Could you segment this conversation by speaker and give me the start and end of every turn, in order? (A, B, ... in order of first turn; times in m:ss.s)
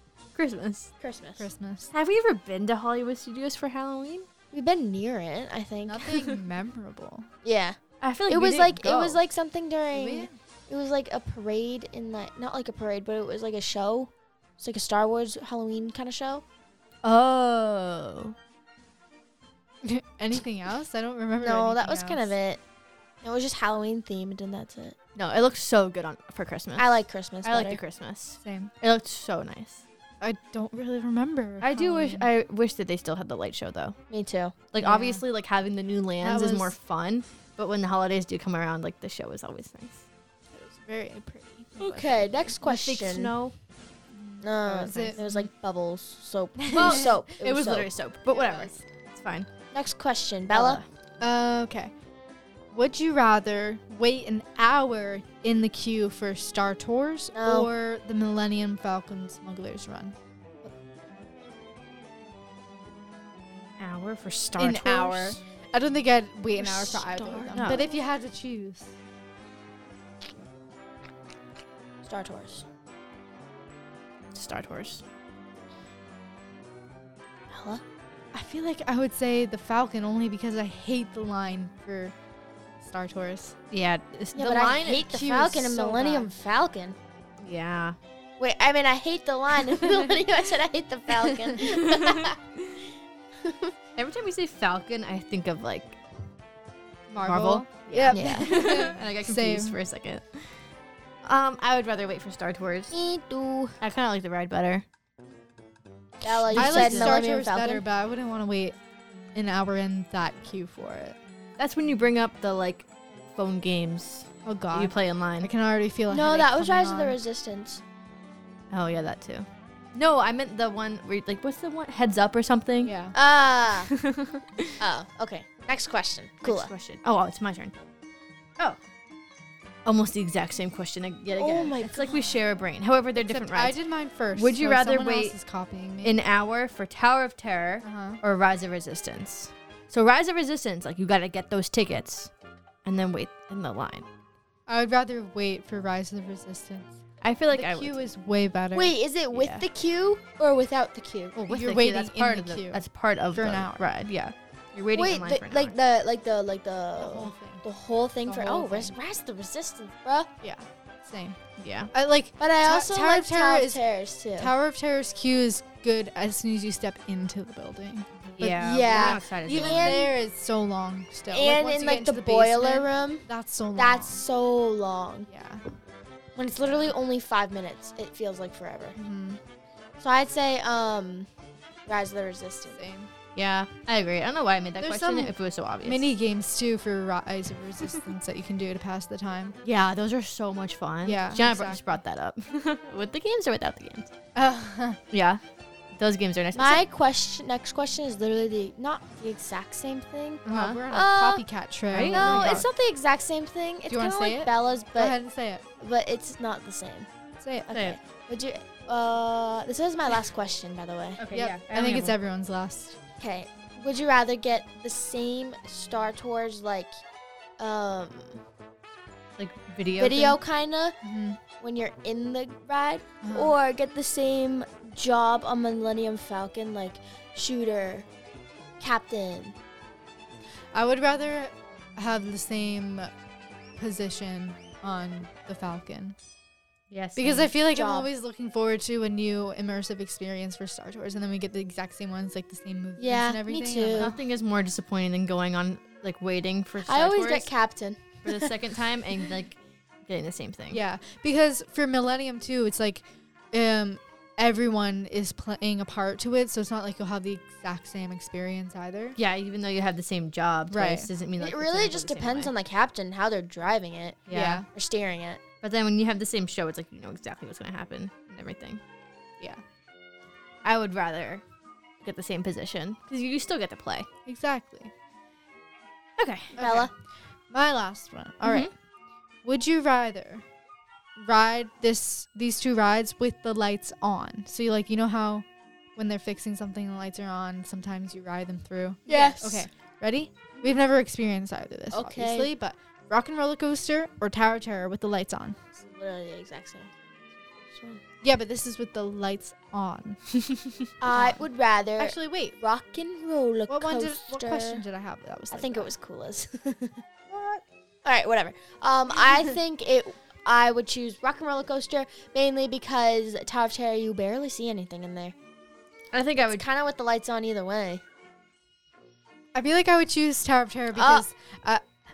0:00.4-0:00.9 A
0:01.0-0:01.5 B
0:01.4-0:01.9 C
0:01.9-0:04.3 A
0:04.5-0:06.2 B
0:05.9-0:07.3 C
0:07.4-0:16.4 B
0:08.0-0:09.2 A
0:09.9-0:10.4 C
0:17.0-0:18.4 A
0:19.8-0:22.3 C
0:21.4-0:22.6 B
0:23.2-0:25.0 B
0:25.2-0:29.8 A
0:26.8-0:27.8 B
0:28.4-0:28.7 C
0:30.2-0:32.3 C
0:31.6-0:34.0 A
0:34.1-0:34.6 B
0:34.7-0:40.0 A
0:34.8-0:35.2 C
0:36.2-0:36.8 C
0:40.5-0:42.0 C
0:41.8-0:43.3 B
0:42.6-0:43.5 A
0:44.1-0:45.5 C
0:44.4-0:47.9 B
0:46.6-0:47.2 C
0:46.7-0:49.5 A
0:48.3-0:48.8 C
0:49.7-0:50.8 B
0:50.5-0:50.9 A
0:51.2-0:51.9 C
0:52.7-1:00.7 C
0:57.3-0:57.7 B
1:03.8-1:05.4 A
1:04.6-1:08.9 C
1:06.6-1:07.9 A
1:12.0-1:12.6 B
1:14.3-1:15.0 A
1:17.5-1:17.8 B
1:18.3-1:22.2 C
1:22.8-1:23.6 C
1:23.7-1:25.2 A
1:24.4-1:27.0 B
1:25.1-1:26.3 C
1:27.4-1:28.0 A
1:28.4-1:32.4 B
1:31.6-1:32.8 A
1:33.4-1:33.7 B
1:34.0-1:36.0 A
1:37.1-1:39.8 C
1:37.2-1:40.6 A
1:38.1-1:38.6 B
1:41.2-1:43.0 A
1:42.9-1:43.8 B
1:43.8-1:44.8 A
1:46.2-1:47.8 B
1:46.2-1:47.2 A
1:46.5-1:48.8 C
1:49.3-1:51.2 C
1:51.6-1:55.5 A
1:54.4-1:57.2 C
1:56.1-1:57.8 B
1:58.7-2:03.0 A
2:02.8-2:03.2 C
2:03.1-2:03.9 B
2:03.8-2:04.7 A
2:04.8-2:06.7 B
2:06.4-2:07.8 A
2:09.8-2:13.8 A
2:11.4-2:12.3 B
2:13.2-2:16.2 C
2:14.4-2:15.4 A
2:16.0-2:22.3 A
2:17.8-2:18.2 C
2:22.8-2:24.1 A
2:24.7-2:27.0 C
2:27.2-2:28.0 A
2:27.5-2:29.0 C
2:28.7-2:31.4 B
2:29.3-2:29.6 A
2:31.4-2:32.8 C
2:31.5-2:35.8 A
2:33.3-2:33.8 C
2:34.9-2:40.3 B
2:37.0-2:37.6 C
2:38.2-2:39.0 C
2:40.4-2:41.4 C
2:41.6-2:41.9 A
2:41.9-2:43.8 C
2:42.4-2:44.5 B
2:44.4-2:54.2 C
2:48.3-2:50.0 A
2:48.4-2:50.1 B
2:51.3-2:55.3 B
2:55.3-2:55.6 C
2:56.4-2:59.0 B
2:56.6-2:56.9 C
2:59.0-2:59.4 C
3:00.0-3:01.3 B
3:01.9-3:02.8 B
3:02.7-3:03.1 C
3:03.4-3:06.1 A
3:04.8-3:09.6 C
3:09.6-3:14.1 A
3:11.0-3:11.8 C
3:14.4-3:15.0 C
3:15.1-3:15.4 A
3:16.0-3:16.8 A
3:16.6-3:21.4 B
3:20.4-3:22.7 C
3:20.5-3:20.8 A
3:21.9-3:22.6 A
3:22.1-3:25.2 B
3:23.9-3:25.6 C
3:25.8-3:27.1 B
3:27.4-3:27.7 C
3:27.7-3:31.2 B
3:27.7-3:28.0 A
3:31.2-3:32.2 A
3:31.3-3:33.0 C
3:33.2-3:36.9 B
3:37.6-3:38.4 B
3:39.4-3:40.4 A
3:40.0-3:41.0 B
3:41.0-3:41.4 C
3:41.6-3:48.1 B
3:43.2-3:43.6 C
3:48.8-3:49.6 B
3:50.7-3:53.1 C
3:53.8-3:56.2 C
3:56.9-3:57.5 A
3:57.2-4:04.2 C
3:57.6-3:58.1 B
4:03.0-4:04.2 B
4:04.0-4:07.5 A
4:06.8-4:08.5 B
4:08.2-4:10.8 A
4:10.7-4:19.2 C
4:19.2-4:22.5 A
4:20.7-4:21.1 C
4:21.4-4:25.4 B
4:24.3-4:24.6 A
4:24.3-4:24.7 C
4:25.6-4:28.8 A
4:30.6-4:31.4 A
4:32.0-4:34.1 A
4:34.3-4:34.9 C
4:36.2-4:36.6 A
4:36.6-4:36.9 C
4:36.6-4:36.9 B
4:37.5-4:38.7 C
4:38.4-4:38.7 A
4:39.4-4:40.4 C
4:41.2-4:55.6 C
4:49.1-4:49.7 B
4:51.9-4:52.5 B
4:55.8-4:56.9 B
4:57.7-4:58.0 B
4:58.2-5:01.4 C
5:01.0-5:04.8 B
5:02.0-5:02.6 C
5:03.7-5:05.9 C
5:05.5-5:07.0 B
5:08.0-5:15.4 B
5:16.1-5:16.7 A
5:16.5-5:18.0 B
5:19.5-5:21.8 C
5:20.9-5:21.3 B